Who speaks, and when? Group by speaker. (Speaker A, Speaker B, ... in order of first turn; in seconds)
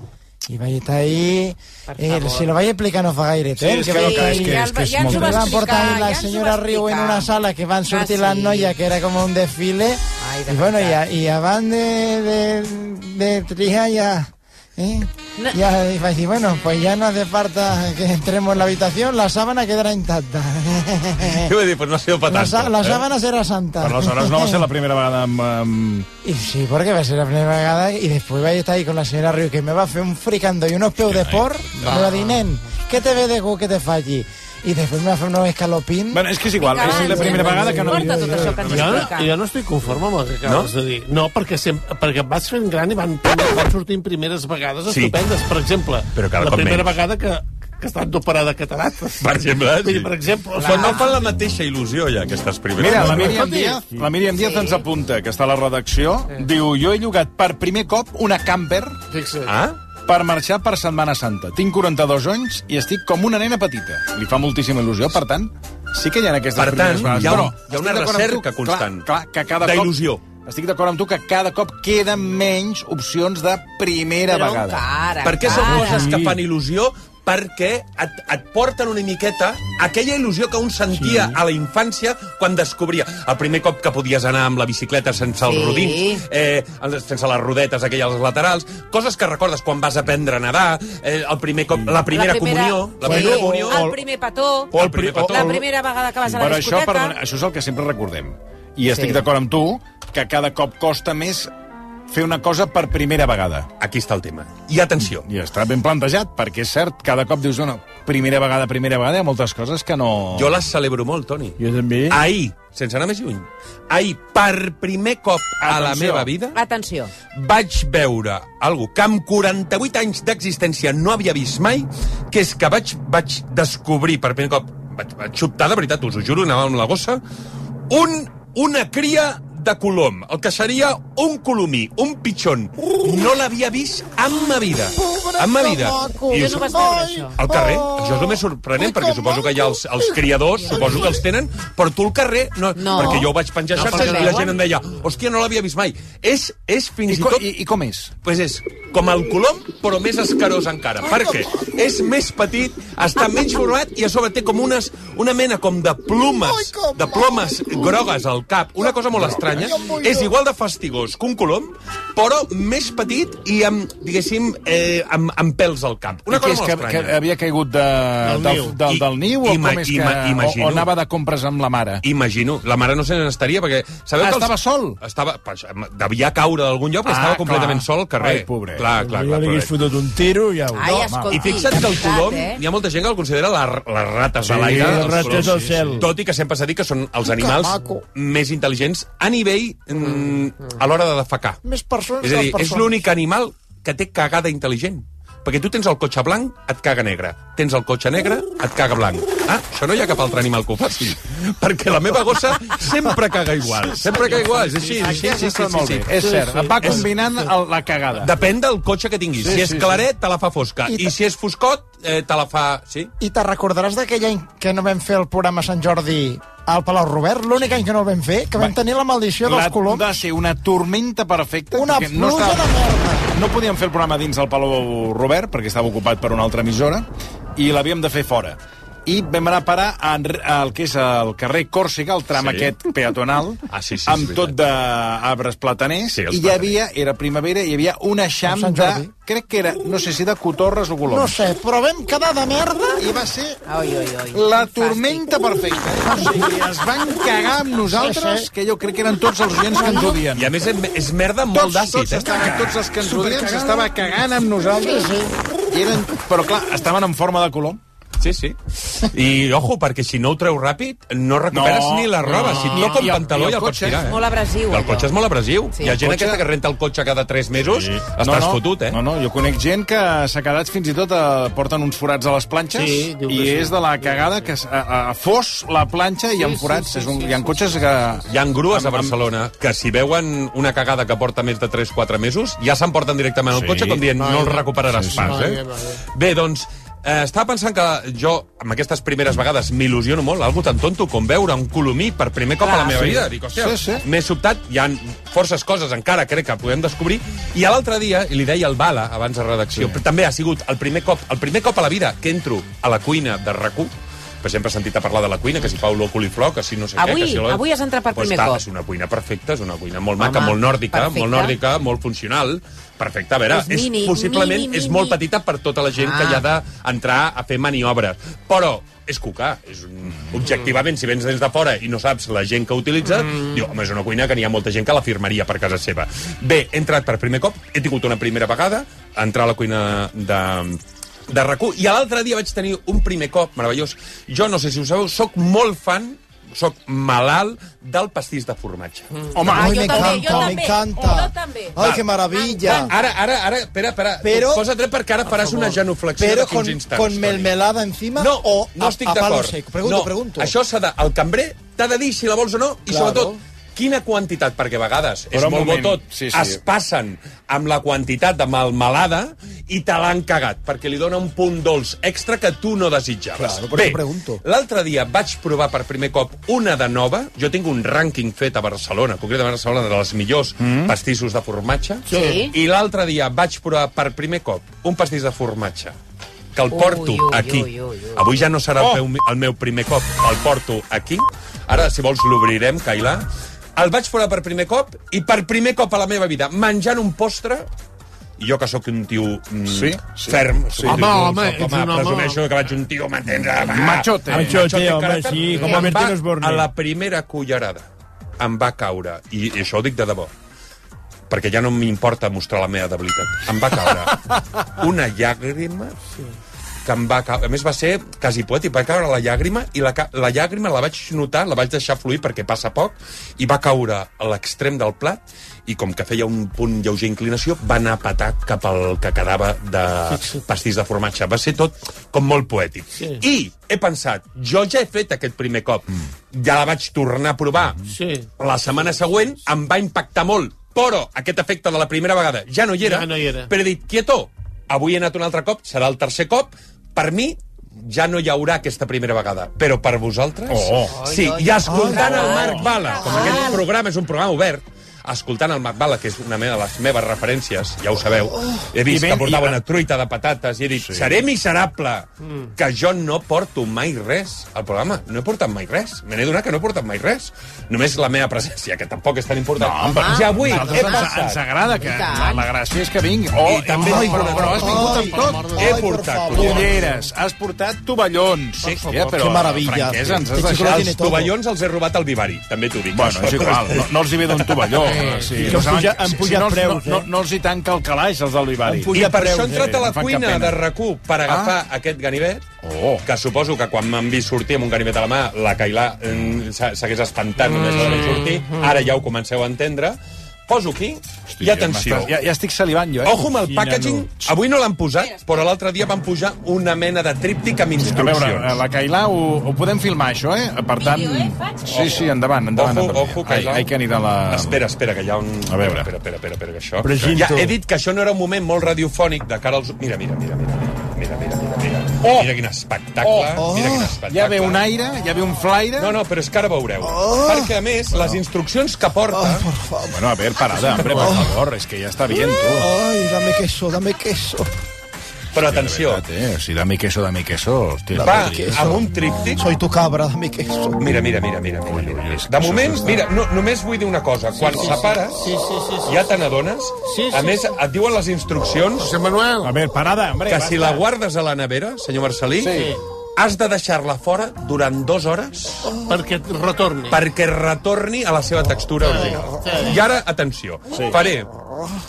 Speaker A: 0.5-21.5, 22.3-24.6, 26.2-36.3, 134.9-140.2, 151.0-151.7, 156.4-158.1, 158.8-160.3, 187.2-188.0, 191.6-193.0, 210.9-211.1, 213.2-220.1, 221.7-223.3, 238.4-239.1, 241.1-243.1, 247.9-248.5, 249.8-250.1, 254.7-255.3, 339.4-342.9, 344.2-344.6, 346.2-350.5, 352.9-353.4, 363.5-364.4, 463.9-466.6, 469.1-471.3, 513.4-514.0, 516.8-517.5, 519.1-520.0, 520.9-521.2, 522.5-524.5, 528.0-528.7, 529.4-530.8
Speaker B: 1.9-2.5, 3.8-7.3, 7.9-8.8, 10.2-11.0, 36.6-39.4, 50.6-51.2, 54.3-54.9, 74.3-76.1, 85.4-86.2, 92.0-97.1, 98.9-99.2, 116.5-117.1, 136.3-137.3, 142.8-144.5, 180.7-182.6, 243.7-245.4, 264.1-265.1, 292.6-293.2, 307.0-308.6, 310.2-311.6, 313.5-315.2, 316.0-316.4, 339.5-341.8, 342.3-342.9, 372.1-372.5, 376.7-378.4, 441.0-443.6, 459.9-461.1, 461.8-462.4, 500.8-502.0
Speaker C: 3.6-5.6, 23.8-26.1, 31.1-31.9, 36.1-39.1, 52.8-59.0, 60.1-74.9, 96.3-101.5, 102.1-103.7, 105.0-110.5, 115.6-116.3, 147.1-148.1, 159.1-159.8, 166.3-172.0, 174.2-175.0, 177.1-178.9, 180.9-181.6, 184.4-186.1, 203.9-208.3, 209.4-210.1, 219.4-222.7, 223.3-241.4, 243.0-243.6, 244.3-250.6, 251.5-255.1, 255.7-257.8, 261.5-264.1, 265.8-266.4, 267.6-279.1, 283.5-284.1, 284.9-285.5, 292.9-294.1, 299.7-300.0, 339.4-340.4, 355.3-356.6, 370.6-370.9, 389.6-391.1, 393.5-394.6, 440.5-440.9, 442.0-443.3, 448.9-449.6, 450.7-451.2, 459.6-465.8, 466.3-470.9, 472.9-480.6, 481.3-481.6, 482.6-483.1, 491.3-494.3, 497.8-504.6, 505.5-505.9, 512.0-512.3, 513.0-516.0, 517.9-518.2, 519.9-522.7, 525.4-528.8, 531.6-533.1, 539.4-540.9, 542.4-542.8, 550.7-551.0
Speaker D: 21.4-23.0, 40.4-40.7, 44.9-45.1, 46.1-46.9, 49.2-53.4, 59.5-59.8, 66.6-69.1, 69.6-70.2, 75.2-93.9, 94.7-95.6, 103.8-105.3, 110.3-111.6, 112.1-116.6, 117.3-127.2, 127.9-136.6, 137.4-147.5, 148.2-167.1, 168.9-170.9, 172.0-179.8, 181.3-191.6, 192.2-206.1, 206.8-207.1, 208.2-213.1, 232.4-232.7, 233.7-234.6, 236.1-236.8, 250.3-252.7, 258.2-269.0, 278.3-285.6, 286.1-307.6, 308.1-339.1, 341.8-342.1, 342.7-347.5, 348.2-375.9, 376.6-387.7, 388.4-397.9, 398.4-400.3, 401.3-404.2, 404.8-406.0, 406.9-427.8, 428.4-461.4, 463.4-464.9, 465.6-466.7, 468.6-469.0, 470.4-475.4, 478.9-482.4, 483.1-492.1, 493.0-498.6, 501.7-502.0, 502.6-503.7, 504.3-514.6, 515.8-519.5, 520.7-521.3, 525.3-526.0, 528.0-529.4, 530.8-535.3, 535.9-538.9, 540.3-545.8, 546.9-551.3
Speaker E: 31.9-32.4, 38.7-49.3, 49.8-51.0, 59.1-59.5, 143.8-144.5, 168.2-168.8, 206.4-206.8, 262.3-263.1, 272.7-274.5, 276.4-277.6, 284.2-286.0, 345.3-345.7, 372.1-372.4, 390.8-392.4, 420.1-420.4, 422.9-423.2, 427.9-428.3, 432.8-433.5, 463.9-465.8, 474.8-475.5, 487.6-488.4, 535.2-535.9, 536.8-537.4, 538.8-539.5, 545.9-547.0, 548.8-549.8
Speaker F: 36.9-38.7, 53.2-54.1, 75.6-76.4, 93.1-94.0, 94.8-95.6, 111.6-112.2, 179.0-181.0, 184.5-186.1, 394.3-396.7, 475.5-477.1, 478.7-479.2, 506.8-507.5